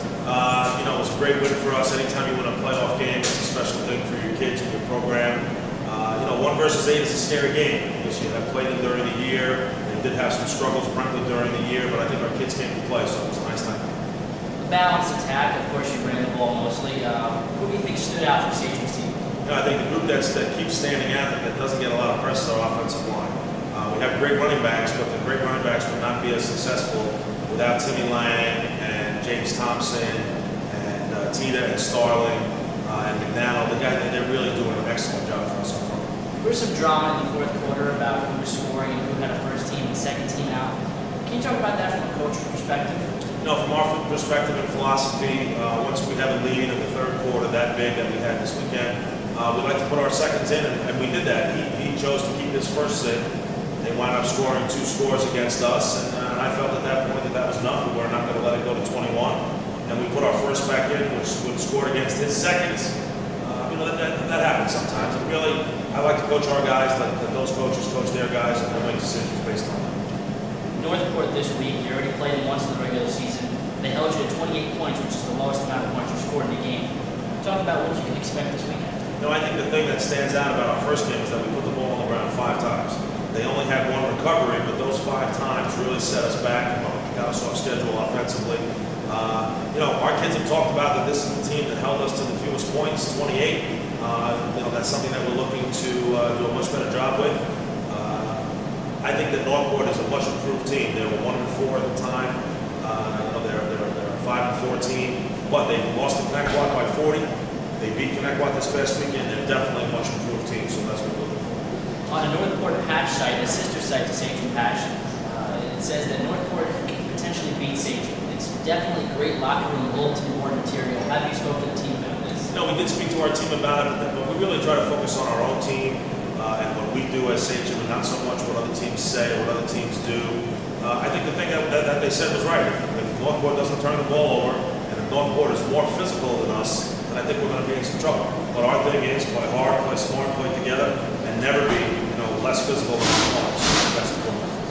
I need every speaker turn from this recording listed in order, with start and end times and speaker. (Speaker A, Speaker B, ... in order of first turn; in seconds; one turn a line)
Speaker A: 0.2-13.8
Speaker B: 14.6-19.1
Speaker A: 19.4-36.0
Speaker B: 36.4-40.7
Speaker B: 41.2-43.1
Speaker A: 43.4-53.2
Speaker A: 53.8-69.9
Speaker B: 70.8-79.0
Speaker A: 79.2-98.4
Speaker A: 99.0-107.2
Speaker A: 107.8-111.6
Speaker B: 112.1-122.5
Speaker A: 122.5-144.6